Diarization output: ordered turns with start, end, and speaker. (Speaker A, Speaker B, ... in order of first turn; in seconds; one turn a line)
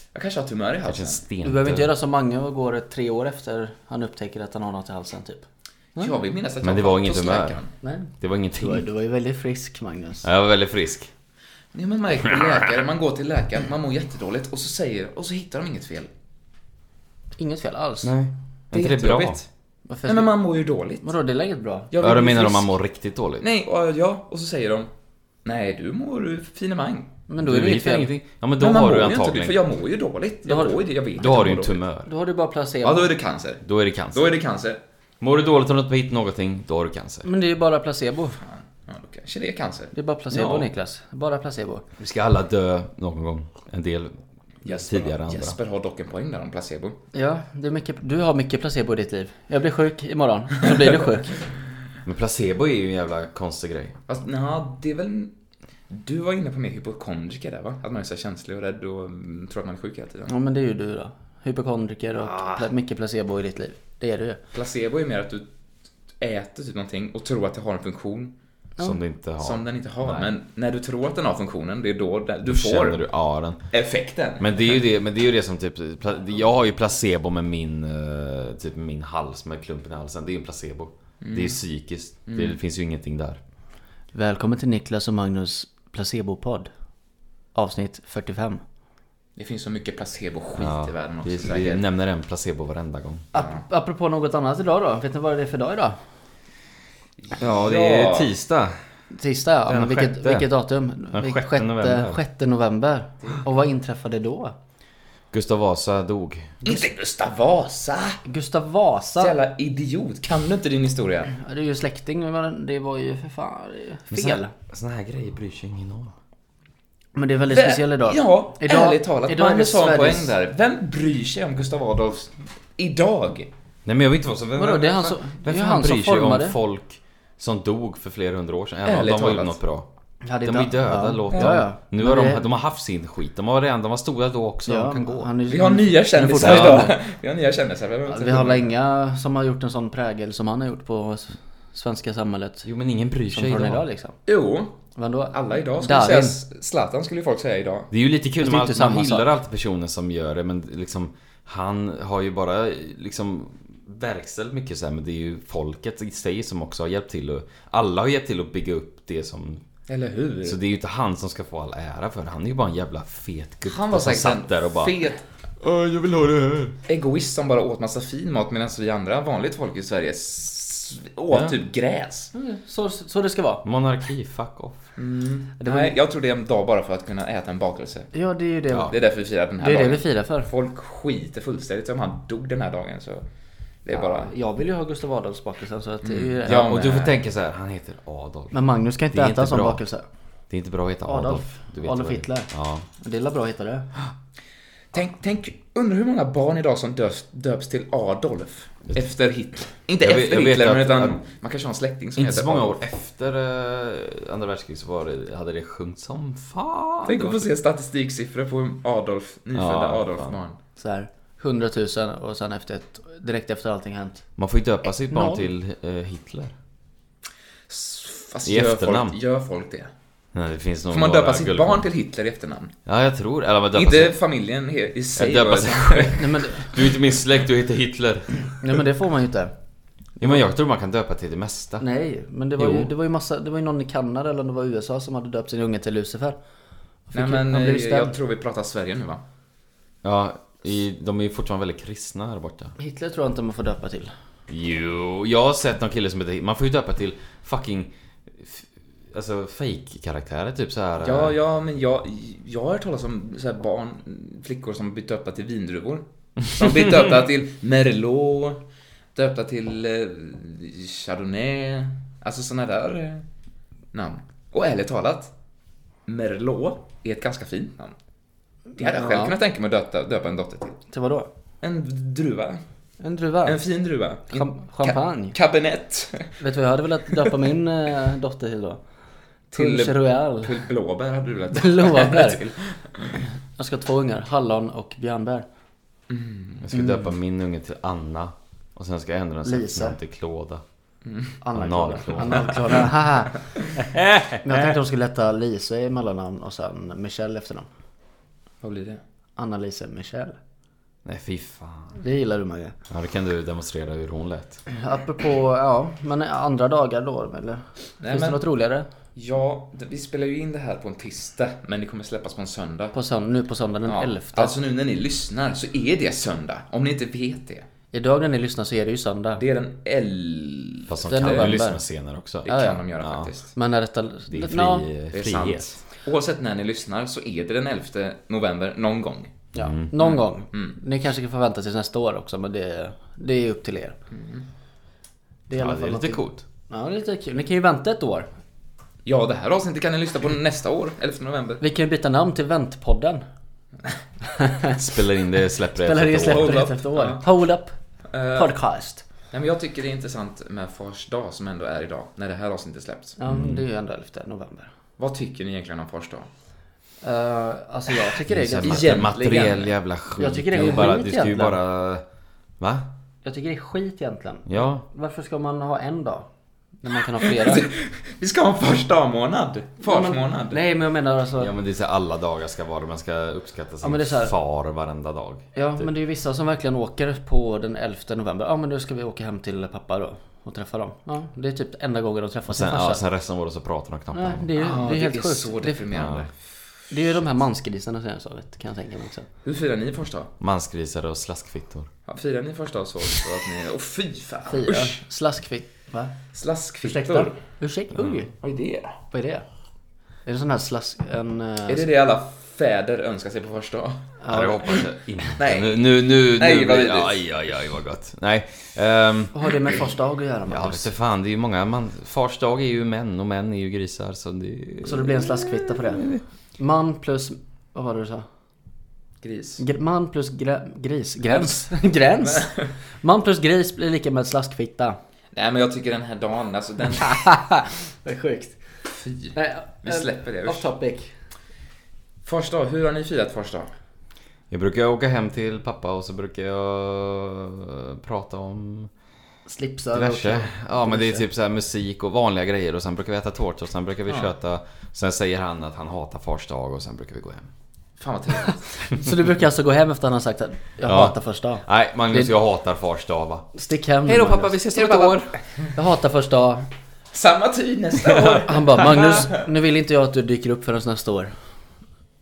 Speaker A: 0.1-1.2
Speaker B: 0.9-1.9
Speaker C: 1.4-5.5
Speaker A: 6.0-7.7
Speaker B: 6.6-7.6
Speaker C: 7.8-10.3
Speaker B: 8.2-8.8
Speaker B: 10.2-11.1
Speaker A: 11.7-16.1
Speaker B: 12.3-12.6
Speaker C: 17.4-18.1
Speaker B: 18.0-19.4
Speaker A: 18.7-19.5
Speaker C: 19.9-20.3
Speaker A: 20.1-21.1
Speaker C: 21.0-21.9
Speaker A: 21.9-22.7
Speaker B: 22.0-23.5
Speaker A: 23.4-24.9
Speaker A: 25.4-27.1
Speaker C: 27.3-28.1
Speaker B: 27.4-29.6
Speaker A: 28.6-31.8
Speaker C: 30.4-30.8
Speaker B: 31.2-32.1
Speaker C: 32.1-33.1
Speaker A: 32.8-34.8
Speaker B: 33.6-34.4
Speaker B: 35.2-37.3
Speaker C: 37.2-38.4
Speaker A: 38.4-39.9
Speaker C: 39.9-41.8
Speaker B: 40.3-40.7
Speaker B: 42.0-45.6
Speaker A: 44.6-47.0
Speaker C: 47.1-51.4
Speaker B: 52.0-54.0
Speaker A: 54.1-55.3
Speaker A: 55.9-60.3
Speaker C: 60.3-64.4
Speaker A: 64.5-65.5
Speaker A: 66.2-68.3
Speaker B: 68.8-70.3
Speaker A: 69.4-73.1
Speaker B: 72.5-73.6
Speaker A: 73.7-74.8
Speaker B: 74.4-83.4
Speaker A: 81.2-81.6
Speaker A: 82.3-82.6
Speaker C: 84.1-86.7
Speaker C: 87.5-88.6
Speaker A: 89.4-91.8
Speaker B: 90.6-93.3
Speaker C: 93.3-96.0
Speaker A: 93.3-93.6
Speaker A: 97.3-98.3
Speaker B: 97.4-98.8
Speaker C: 99.1-104.5
Speaker B: 99.7-100.5
Speaker B: 101.1-102.2
Speaker B: 105.3-106.8
Speaker A: 106.6-108.2
Speaker C: 108.2-109.3
Speaker A: 109.2-111.3
Speaker C: 111.3-114.5
Speaker B: 114.1-116.2
Speaker C: 117.2-120.3
Speaker A: 117.5-123.5
Speaker B: 123.8-129.9
Speaker C: 124.6-126.6
Speaker A: 128.8-129.6
Speaker C: 130.2-132.4
Speaker B: 130.4-135.3
Speaker A: 131.3-131.6
Speaker C: 134.7-137.0
Speaker A: 135.5-138.6
Speaker B: 136.4-136.9
Speaker C: 138.1-142.7
Speaker B: 142.7-143.8
Speaker C: 143.3-144.2
Speaker A: 144.3-144.8
Speaker C: 145.0-146.4
Speaker A: 145.3-147.9
Speaker B: 147.9-159.6
Speaker C: 148.4-149.3
Speaker A: 159.9-160.6
Speaker B: 160.4-164.9
Speaker A: 163.7-165.2
Speaker B: 165.6-166.8
Speaker A: 166.9-172.3
Speaker C: 172.3-173.6
Speaker B: 173.6-174.9
Speaker A: 175.0-178.1
Speaker C: 175.6-175.9
Speaker C: 178.1-178.9
Speaker A: 178.9-183.2
Speaker C: 179.6-180.5
Speaker A: 183.8-184.3
Speaker C: 183.9-186.9
Speaker A: 186.0-187.2
Speaker B: 186.5-188.6
Speaker C: 188.5-190.1
Speaker B: 189.1-189.8
Speaker B: 190.5-192.8
Speaker C: 191.1-193.9
Speaker A: 194.9-202.8
Speaker B: 200.0-201.2
Speaker B: 202.2-207.5
Speaker A: 207.1-210.6
Speaker B: 209.5-210.4
Speaker C: 210.8-214.2
Speaker B: 214.4-216.5
Speaker C: 215.1-215.5
Speaker A: 217.7-219.9
Speaker B: 218.4-219.2
Speaker B: 220.3-221.9
Speaker A: 220.9-222.7
Speaker B: 222.9-224.2
Speaker A: 223.7-226.2
Speaker B: 225.2-228.5
Speaker C: 226.2-226.7
Speaker C: 228.6-229.5
Speaker B: 230.2-231.9
Speaker C: 231.8-236.4
Speaker B: 232.6-232.9
Speaker C: 237.1-238.2
Speaker A: 237.1-239.2
Speaker B: 240.0-242.7
Speaker C: 242.8-244.1
Speaker B: 244.5-251.4
Speaker A: 251.0-258.6
Speaker A: 259.1-263.3
Speaker A: 263.9-265.3
Speaker A: 266.1-267.9
Speaker C: 268.8-269.4
Speaker A: 268.8-270.8
Speaker C: 270.9-271.3
Speaker A: 271.6-272.6
Speaker C: 273.0-273.6
Speaker A: 273.4-276.3
Speaker C: 274.3-275.4
Speaker C: 276.4-278.8
Speaker A: 279.5-283.1
Speaker C: 279.5-280.6
Speaker C: 281.6-282.4
Speaker C: 283.6-285.5
Speaker A: 286.1-286.6
Speaker B: 286.6-290.6
Speaker C: 286.7-287.1
Speaker C: 289.4-290.0
Speaker A: 291.1-291.4
Speaker C: 291.4-293.4
Speaker B: 291.6-292.8
Speaker B: 293.9-294.7
Speaker C: 294.4-297.7
Speaker A: 298.6-299.0
Speaker C: 299.4-300.4
Speaker B: 301.1-302.0
Speaker C: 302.0-302.8
Speaker B: 302.9-304.6
Speaker C: 304.7-308.9
Speaker A: 308.0-308.4
Speaker A: 309.2-312.9
Speaker C: 312.9-314.6
Speaker A: 313.9-317.7
Speaker C: 317.9-319.4
Speaker A: 319.4-321.5
Speaker B: 320.9-323.3
Speaker C: 321.1-321.8
Speaker A: 322.4-323.5
Speaker C: 322.5-322.8
Speaker C: 323.5-324.9
Speaker B: 324.3-325.7
Speaker A: 325.1-329.4
Speaker C: 329.5-334.0
Speaker B: 329.6-329.9
Speaker A: 330.0-330.8
Speaker A: 334.1-334.5
Speaker C: 335.5-338.3
Speaker B: 335.6-336.4
Speaker A: 339.1-341.6
Speaker C: 341.6-343.2
Speaker C: 344.4-344.8
Speaker B: 344.8-346.6
Speaker C: 345.8-347.8
Speaker A: 346.2-347.2
Speaker A: 348.1-348.5
Speaker C: 348.4-349.0
Speaker A: 349.3-353.2
Speaker C: 353.2-354.7
Speaker B: 353.3-353.6
Speaker A: 355.0-356.3
Speaker C: 357.0-359.1
Speaker B: 358.3-362.0
Speaker A: 358.6-359.7
Speaker C: 360.2-361.6
Speaker B: 362.6-362.9
Speaker C: 363.2-366.3
Speaker B: 364.5-364.9
Speaker C: 366.8-367.7
Speaker A: 367.4-370.6
Speaker C: 369.8-371.5
Speaker B: 371.4-375.9
Speaker C: 373.8-374.3
Speaker C: 375.6-383.0
Speaker B: 382.5-384.5
Speaker C: 384.1-385.8
Speaker A: 384.6-386.3
Speaker B: 385.9-386.3
Speaker C: 386.9-389.3
Speaker A: 389.4-390.3
Speaker B: 390.4-391.9
Speaker A: 392.1-395.0
Speaker C: 394.5-396.1
Speaker A: 396.3-397.4
Speaker C: 396.8-398.3
Speaker B: 397.9-398.2
Speaker A: 398.4-399.0
Speaker C: 399.1-399.5
Speaker C: 400.3-401.9
Speaker A: 401.7-404.1
Speaker C: 404.2-404.7
Speaker B: 404.3-409.4
Speaker A: 405.4-407.2
Speaker C: 409.3-410.9
Speaker B: 410.5-416.2
Speaker C: 414.8-418.3
Speaker A: 419.2-419.6
Speaker C: 419.6-425.0
Speaker A: 422.3-422.6
Speaker A: 425.3-427.2
Speaker C: 427.0-428.6
Speaker A: 428.9-430.7
Speaker C: 429.3-431.1
Speaker A: 432.2-433.7
Speaker B: 434.5-438.9
Speaker C: 439.5-441.2
Speaker B: 439.9-447.5
Speaker A: 448.0-449.0
Speaker C: 449.0-452.3
Speaker B: 450.9-453.5
Speaker C: 453.5-454.6
Speaker B: 454.1-455.4
Speaker A: 454.7-455.2
Speaker C: 455.7-456.7
Speaker A: 457.1-459.2
Speaker C: 458.4-461.4